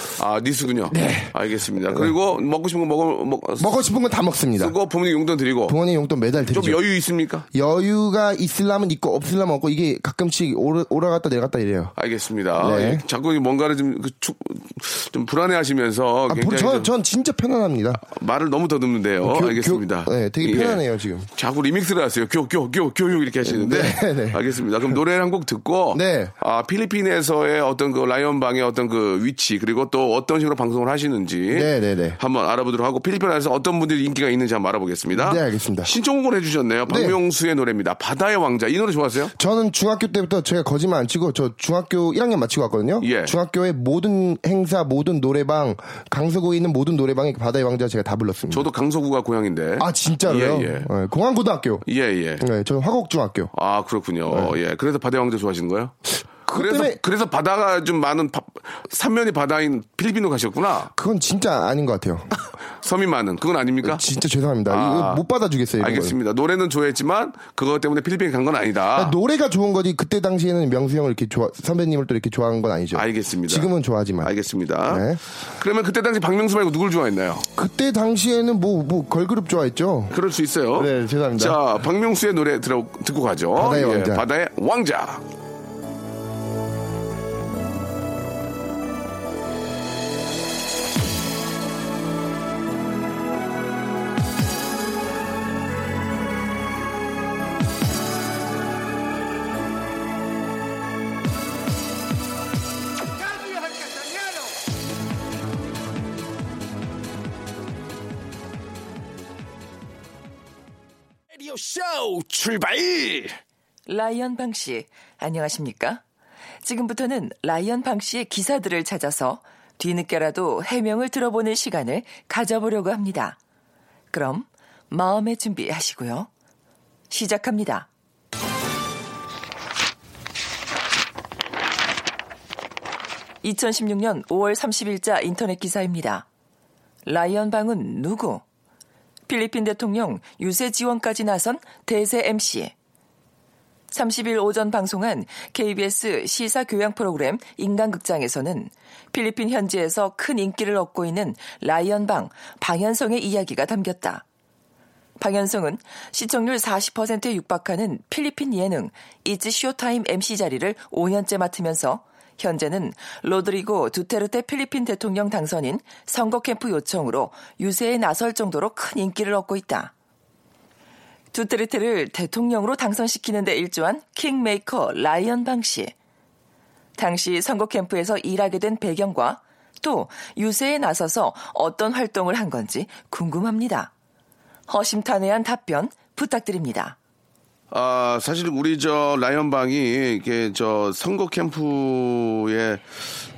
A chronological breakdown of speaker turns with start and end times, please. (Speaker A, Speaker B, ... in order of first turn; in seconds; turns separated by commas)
Speaker A: 0.2-3.8, Speaker B: 0.9-1.4, Speaker B: 3.6-4.8, Speaker A: 4.6-5.8, Speaker B: 5.7-6.8, Speaker A: 6.5-7.5, Speaker B: 7.5-11.9, Speaker A: 12.0-16.9, Speaker B: 12.6-13.0, Speaker B: 16.3-18.0, Speaker A: 18.0-20.8, Speaker B: 19.2-21.3, Speaker A: 21.4-39.3, Speaker B: 23.4-24.4, Speaker B: 25.9-26.3, Speaker B: 31.5-32.2, Speaker B: 35.1-35.9, Speaker B: 36.9-37.2, Speaker B: 39.4-48.7, Speaker A: 43.0-43.4, Speaker A: 48.5-50.9, Speaker B: 49.8-51.9, Speaker A: 51.9-52.4, Speaker B: 52.4-53.5, Speaker A: 53.5-56.0, Speaker B: 54.3-54.6, Speaker B: 56.5-57.0, Speaker A: 56.5-60.9, Speaker B: 61.0-62.3, Speaker A: 62.8-64.0, Speaker B: 63.8-66.2, Speaker A: 64.7-65.2, Speaker A: 65.8-69.2, Speaker B: 69.0-74.3, Speaker A: 73.0-73.7, Speaker A: 74.2-77.5, Speaker B: 74.9-75.2, Speaker B: 77.6-80.2, Speaker A: 80.1-85.2, Speaker B: 80.8-81.6, Speaker B: 83.6-84.2, Speaker A: 111.5-113.3, Speaker C: 113.9-116.0, Speaker C: 116.6-123.4, Speaker C: 124.1-126.3, Speaker C: 127.1-127.9, Speaker C: 133.4-136.3, Speaker C: 137.1-138.4, Speaker C: 139.3-142.7, Speaker C: 143.9-154.2, Speaker C: 155.2-169.9, Speaker C: 171.3-175.9, Speaker C: 177.0-183.9, Speaker C: 184.7-187.0, Speaker A: 187.7-192.8